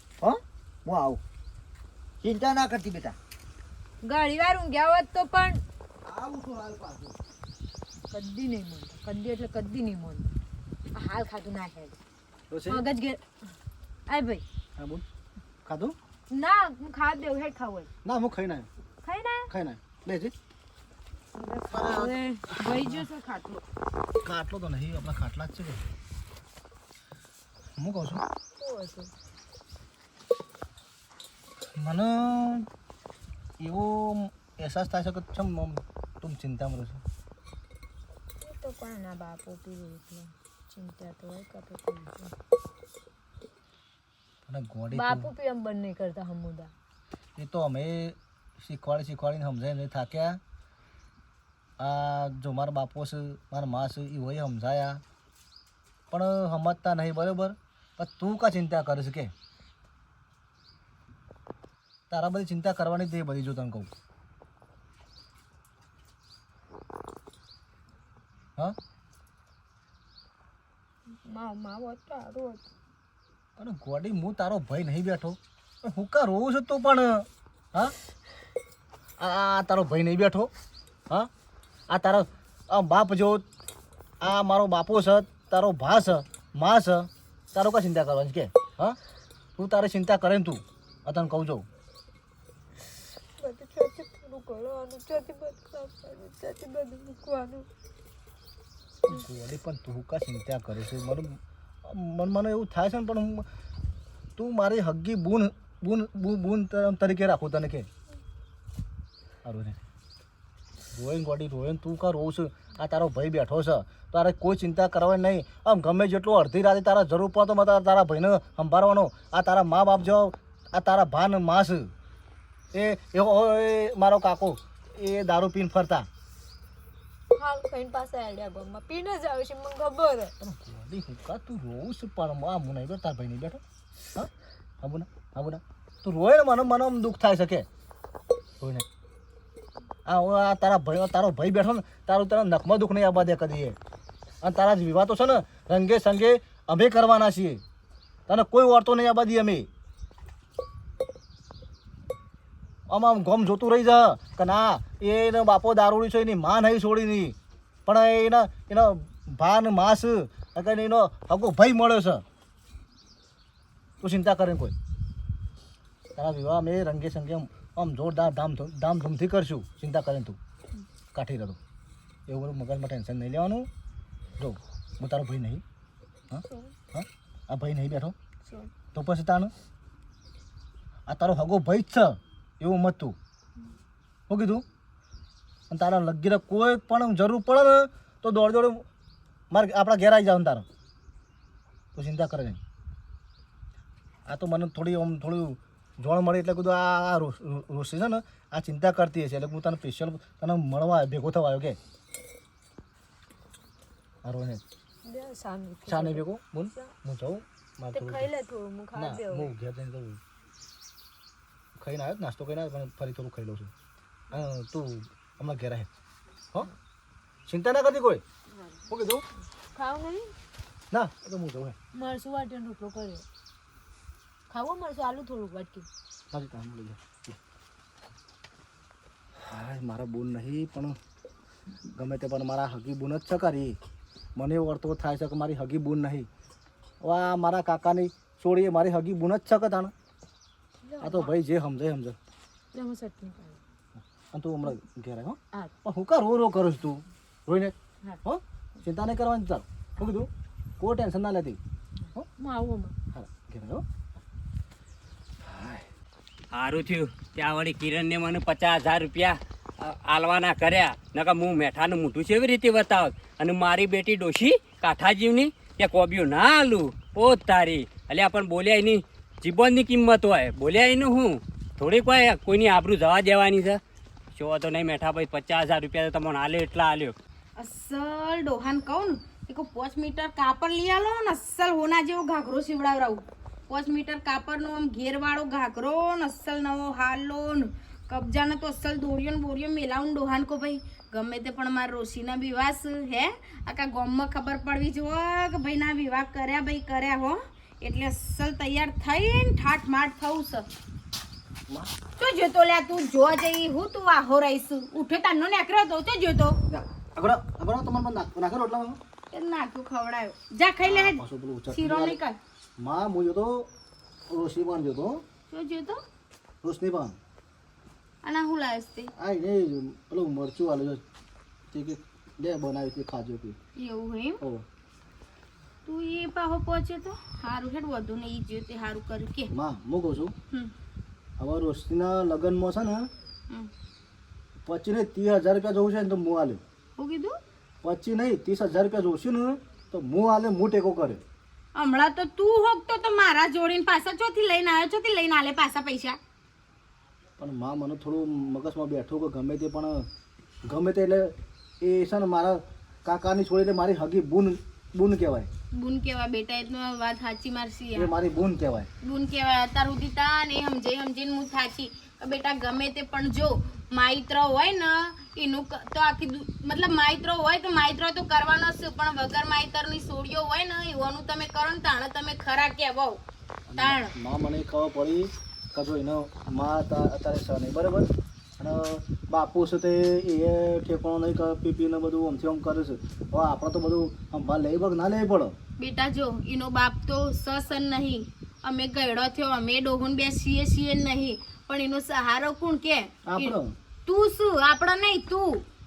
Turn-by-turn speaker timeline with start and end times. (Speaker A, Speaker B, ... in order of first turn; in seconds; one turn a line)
Speaker A: 0.2-1.2
Speaker A: 2.2-3.1
Speaker B: 4.0-5.6
Speaker A: 6.0-7.2
Speaker B: 8.1-10.3
Speaker B: 10.9-11.9
Speaker C: 12.5-12.8
Speaker B: 12.7-13.2
Speaker B: 14.1-14.4
Speaker C: 14.8-15.0
Speaker C: 15.6-15.9
Speaker B: 16.3-17.9
Speaker C: 18.0-18.7
Speaker B: 19.0-19.5
Speaker C: 19.5-20.3
Speaker B: 21.3-23.6
Speaker C: 22.6-23.0
Speaker C: 24.2-25.8
Speaker C: 27.8-28.2
Speaker B: 28.6-29.1
Speaker C: 31.7-32.7
Speaker C: 33.6-37.0
Speaker B: 38.4-42.3
Speaker C: 44.5-45.3
Speaker B: 44.9-46.7
Speaker C: 47.4-50.4
Speaker C: 51.8-55.0
Speaker C: 56.1-59.3
Speaker C: 62.1-63.9
Speaker B: 71.2-72.7
Speaker C: 73.6-77.9
Speaker C: 79.2-80.5
Speaker C: 81.9-83.4
Speaker C: 84.2-89.0
Speaker C: 89.6-91.7
Speaker B: 93.4-97.7
Speaker C: 99.0-103.5
Speaker C: 104.3-107.9
Speaker C: 109.4-109.8
Speaker C: 110.9-121.9
Speaker C: 122.7-126.1
Speaker B: 127.3-130.3
Speaker C: 130.4-133.6
Speaker C: 134.8-137.7
Speaker C: 138.6-138.8
Speaker C: 140.1-143.8
Speaker C: 144.4-147.6
Speaker C: 148.3-149.7
Speaker C: 152.9-162.2
Speaker C: 164.0-164.7
Speaker C: 166.2-170.4
Speaker C: 171.1-171.6
Speaker C: 172.3-173.7
Speaker C: 174.4-175.6
Speaker C: 176.3-178.2
Speaker B: 176.3-176.7
Speaker B: 178.4-178.7
Speaker C: 178.9-179.5
Speaker C: 181.1-183.2
Speaker C: 184.3-184.6
Speaker C: 185.7-188.8
Speaker C: 189.5-190.7
Speaker C: 191.9-192.6
Speaker C: 194.3-201.8
Speaker C: 204.2-204.6
Speaker B: 205.1-206.9
Speaker C: 205.9-208.3
Speaker B: 207.9-209.5
Speaker C: 208.9-210.2
Speaker C: 211.8-213.7
Speaker C: 214.3-215.9
Speaker C: 217.5-218.2
Speaker C: 218.9-219.2
Speaker B: 219.7-220.3
Speaker C: 220.9-221.8
Speaker B: 221.9-223.2
Speaker B: 224.5-225.9
Speaker C: 226.3-227.4
Speaker C: 229.4-231.0
Speaker C: 231.9-233.8
Speaker C: 234.3-236.3
Speaker C: 237.0-239.9
Speaker B: 240.8-241.3
Speaker C: 241.0-242.2
Speaker B: 242.7-243.6
Speaker C: 244.0-251.6
Speaker B: 252.3-252.9
Speaker C: 253.1-253.8
Speaker C: 255.5-255.8
Speaker D: 256.5-273.8
Speaker D: 274.3-277.1
Speaker E: 277.6-300.6
Speaker E: 302.2-306.6
Speaker C: 306.7-309.0
Speaker E: 309.3-312.4
Speaker C: 310.8-312.2
Speaker C: 312.8-313.7
Speaker C: 314.3-315.2
Speaker E: 315.5-316.0
Speaker C: 316.6-317.2
Speaker E: 318.2-319.1
Speaker C: 319.1-321.0
Speaker C: 321.7-323.6
Speaker E: 323.8-324.4
Speaker E: 325.9-329.5
Speaker C: 329.5-330.3
Speaker C: 331.4-333.1
Speaker C: 334.6-336.6
Speaker E: 337.0-337.4
Speaker C: 337.8-341.2
Speaker E: 341.8-346.2
Speaker C: 347.4-350.1
Speaker C: 350.6-355.5
Speaker E: 355.7-358.1
Speaker C: 357.9-358.9
Speaker E: 359.0-373.2
Speaker C: 373.7-385.6
Speaker E: 373.8-374.1
Speaker E: 385.8-393.5
Speaker C: 393.2-393.7
Speaker E: 394.1-395.6